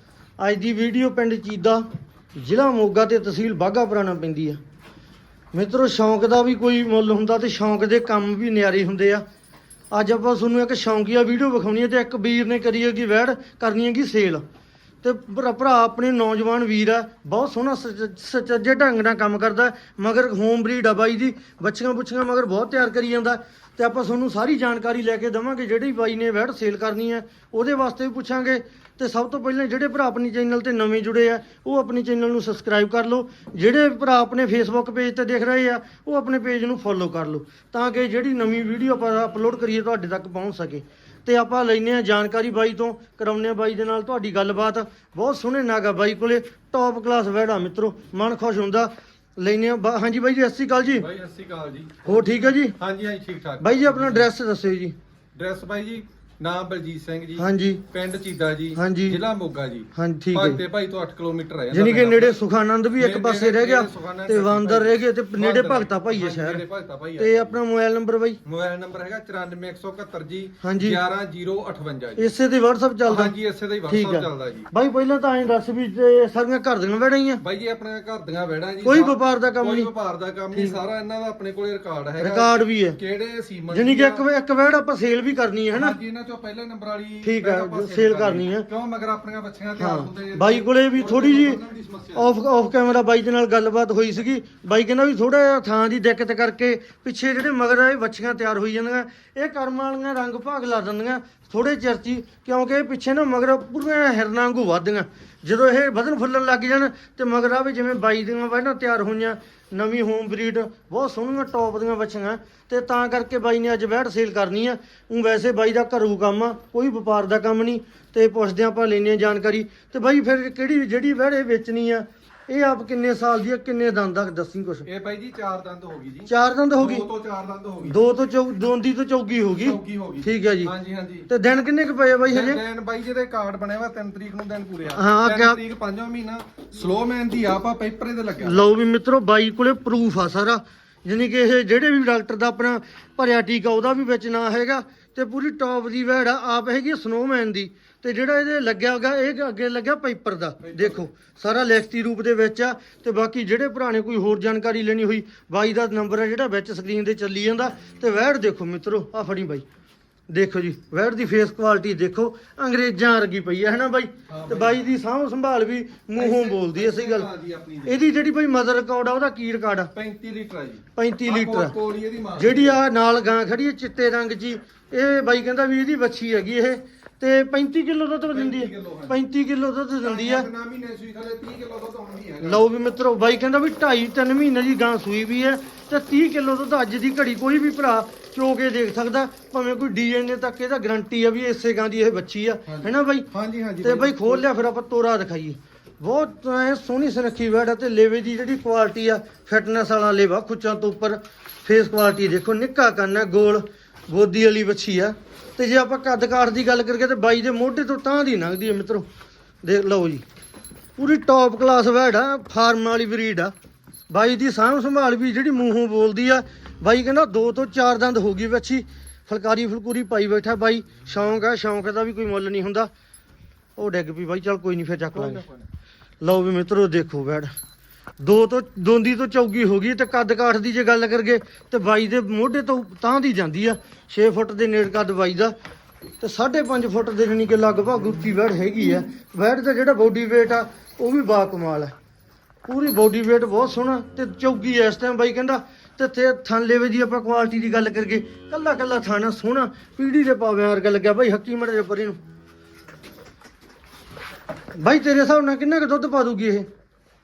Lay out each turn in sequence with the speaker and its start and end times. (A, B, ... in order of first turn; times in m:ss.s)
0:00.4-0:01.8 A
0:02.4-0:04.6 A
0:05.5-0:09.2 A
0:09.9-0:14.4 A
0:15.0-0:51.1 A
0:51.0-0:54.3 B
0:52.0-0:52.8 A
0:53.6-0:55.0 A
0:55.4-1:02.4 B
0:57.4-0:57.8 A
0:58.8-0:59.2 A
1:00.0-1:00.6 A
1:01.7-1:06.6 A
1:03.0-1:07.6 B
1:07.2-1:08.4 A
1:08.4-1:12.3 B
1:10.6-1:11.0 A
1:12.2-1:13.3 A
1:13.1-1:14.7 B
1:13.9-1:17.4 A
1:17.4-1:24.2 B
1:18.8-1:19.9 A
1:20.5-1:20.8 A
1:22.2-1:23.0 A
1:23.7-1:26.0 A
1:25.7-1:32.3 B
1:27.2-1:28.7 A
1:29.8-1:31.6 A
1:32.2-2:04.9 A
2:04.8-2:08.0 B
2:06.3-2:07.1 A
2:07.8-2:10.7 A
2:09.6-2:11.3 B
2:11.3-2:12.6 A
2:12.3-2:18.7 B
2:14.9-2:15.6 A
2:18.4-2:39.6 A
2:30.6-2:31.0 B
2:40.3-2:47.3 A
2:44.3-2:44.9 B
2:46.2-2:48.0 B
2:47.9-2:49.9 A
2:49.9-2:52.8 B
2:51.0-2:51.8 A
2:52.4-3:00.5 A
2:58.3-2:59.2 B
3:00.0-3:02.6 B
3:02.4-3:13.3 A
3:12.7-3:14.4 B
3:13.8-3:29.1 A
3:29.6-3:30.2 A
3:31.0-3:33.5 A
3:34.1-3:42.9 A
3:43.8-3:45.4 A
3:45.1-3:45.7 B
3:46.2-3:47.5 A
3:48.2-3:55.6 A
3:56.2-4:01.9 A
4:02.7-4:12.2 A
4:14.8-4:16.7 A